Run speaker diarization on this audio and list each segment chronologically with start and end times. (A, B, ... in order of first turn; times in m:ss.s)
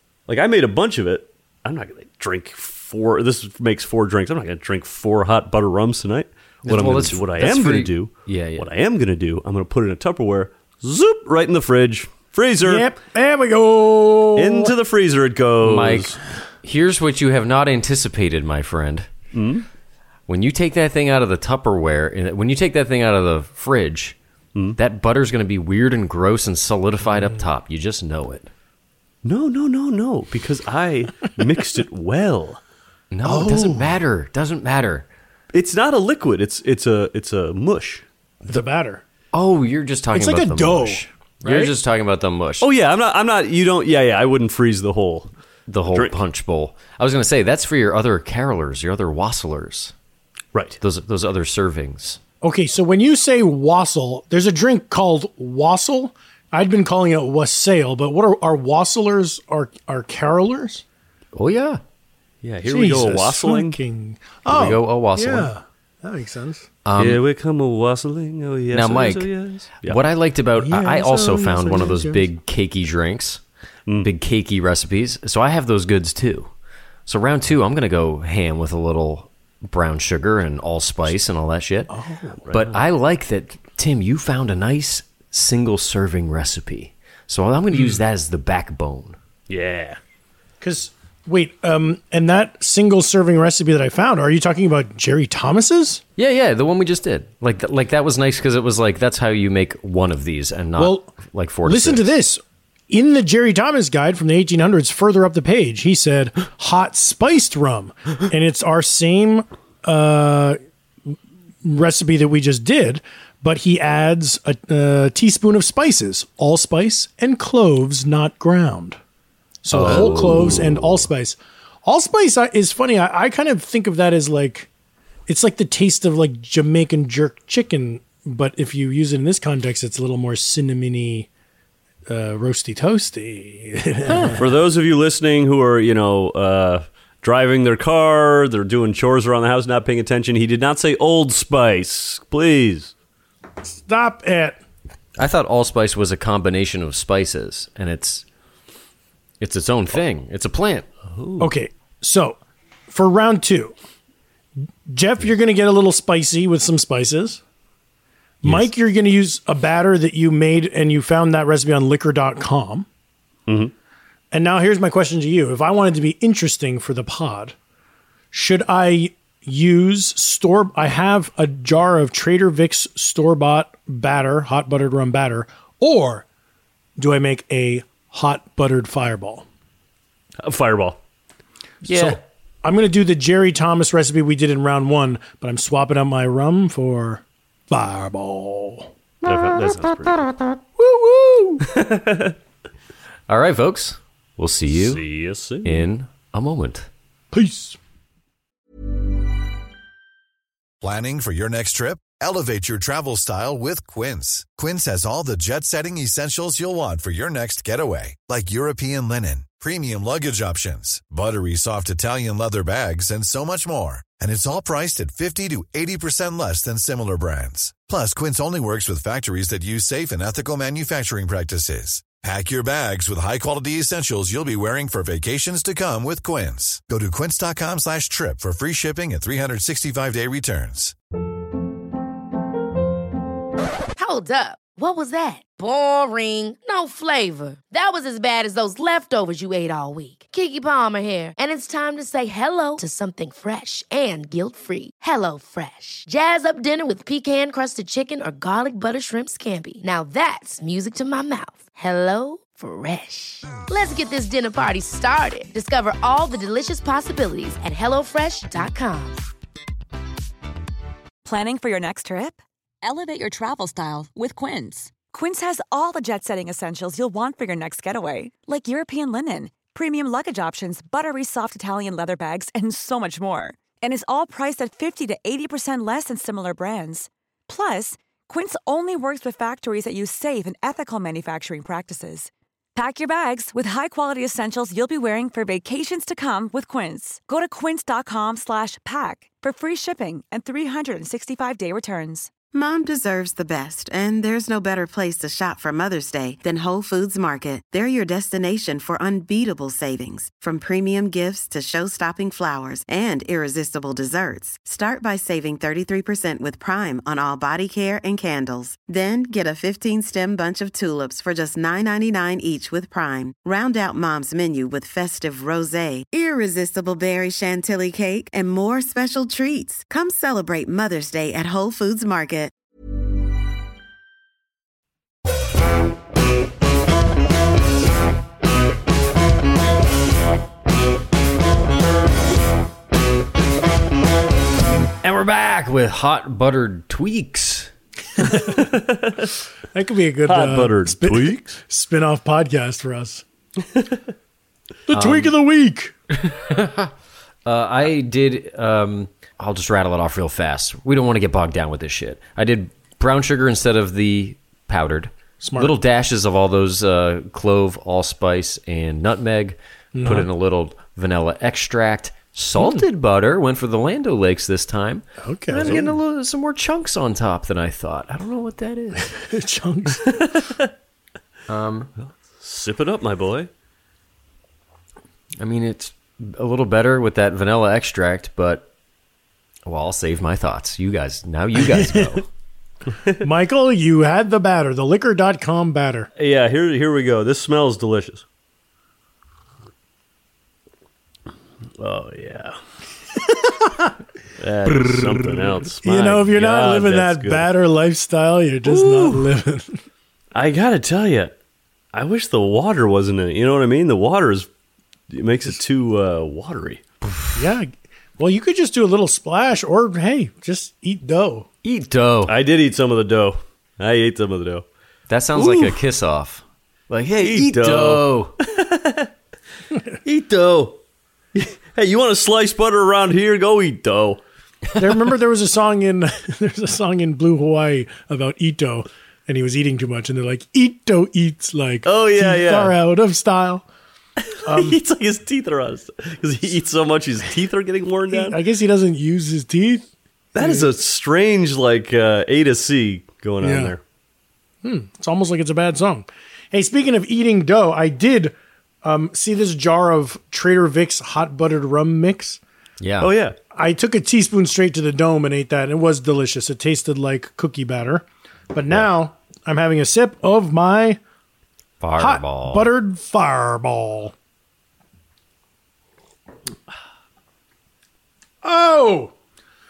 0:00.3-0:12.9 A
0:06.6-0:08.7 B
0:12.6-0:14.7 C
0:14.4-0:16.2 A
0:15.6-0:19.1 B
0:19.3-0:19.6 A
0:20.3-0:24.2 B
0:24.8-0:28.5 B
0:29.2-0:32.6 A
0:33.1-0:35.1 B
0:33.2-0:34.0 C
0:35.5-0:38.0 A
0:38.5-0:39.0 C
0:39.3-0:42.7 B
0:40.1-0:41.1 C
0:41.4-0:41.7 A
0:42.6-0:45.3 A
0:45.7-0:49.9 B
0:50.8-0:52.2 B
0:52.4-1:00.8 C
1:01.3-1:01.8 B
1:02.4-1:03.8 A
1:02.6-1:06.7 C
1:04.4-1:05.5 B
1:06.8-1:07.2 B
1:07.0-1:10.0 A
1:08.7-1:13.4 B
1:10.6-1:12.3 C
1:14.0-1:16.5 B
1:17.1-1:21.9 B
1:21.9-1:22.4 C
1:22.4-1:22.8 A
1:22.5-1:29.2 B
1:29.5-1:30.0 A
1:30.6-1:36.0 C
1:36.2-1:42.1 B
1:40.8-1:41.1 C
1:41.6-1:50.6 C
1:51.6-1:59.0 C
1:59.6-2:04.7 C
1:59.7-2:00.8 B
1:59.8-2:00.4 A
2:05.3-2:11.3 C
2:12.1-2:14.4 C
2:14.4-2:22.9 A
2:23.6-2:24.6 C
2:25.2-2:28.2 B
2:29.4-2:30.9 B
2:31.1-2:31.5 A
2:31.4-2:32.4 C
2:32.9-2:33.7 C
2:34.9-2:37.4 C
2:38.4-2:42.9 C
2:43.5-2:43.7 A
2:44.3-2:47.5 C
2:48.3-2:56.2 C
2:57.0-2:59.4 C
3:00.4-3:01.0 A
3:01.8-3:02.2 A
3:01.8-3:02.2 B
3:02.6-3:08.9 C
3:09.2-3:10.2 A
3:10.3-3:11.6 B
3:11.7-3:12.3 A
3:13.3-3:15.0 B
3:14.7-3:15.8 A
3:15.6-3:16.9 B
3:17.3-3:17.8 C
3:20.8-3:50.9 D
3:54.0-4:19.2 E
4:21.2-4:52.3 F
4:52.5-5:22.5 G
5:35.0-5:37.7 B
5:38.2-5:38.5 C
5:38.7-5:39.3 A
5:39.7-5:43.2 C
5:40.2-5:41.6 A
5:44.9-5:45.9 C
5:44.9-5:45.3 B
5:46.1-5:46.9 B
5:47.4-6:09.1 B
5:55.4-5:55.7 C
5:59.9-6:00.3 C
6:02.6-6:02.8 C
6:05.2-6:05.9 C
6:05.6-6:05.9 A
6:09.2-6:10.3 C
6:11.5-6:11.9 B
6:12.0-6:13.5 A
6:15.4-6:18.7 B
6:19.6-6:22.2 B
6:21.7-6:22.2 C
6:23.2-6:26.1 C
6:26.2-6:28.2 A
6:31.8-6:32.6 A
6:33.3-6:33.9 C
6:34.4-6:37.5 A
6:35.8-6:39.8 C
6:38.6-6:39.3 A
6:40.3-6:41.3 A
6:41.9-6:44.5 A
6:45.1-6:46.8 A
6:47.3-6:51.5 C
6:51.6-6:52.3 B
6:52.2-6:54.6 A
6:55.1-6:58.3 B
6:55.3-6:55.8 A
6:57.2-6:59.1 A
7:00.0-7:00.8 A
7:01.3-7:04.2 A
7:04.8-7:13.6 C
7:11.8-7:12.8 A
7:14.2-7:18.4 A
7:14.5-7:14.8 C
7:18.1-7:20.7 C
7:20.3-7:23.8 A
7:23.4-7:23.7 C
7:24.6-7:32.4 C
7:32.8-7:33.1 B
7:33.0-7:33.4 A
7:33.5-7:41.0 C
7:41.8-7:42.7 B
7:42.0-7:44.1 C
7:48.4-7:49.1 C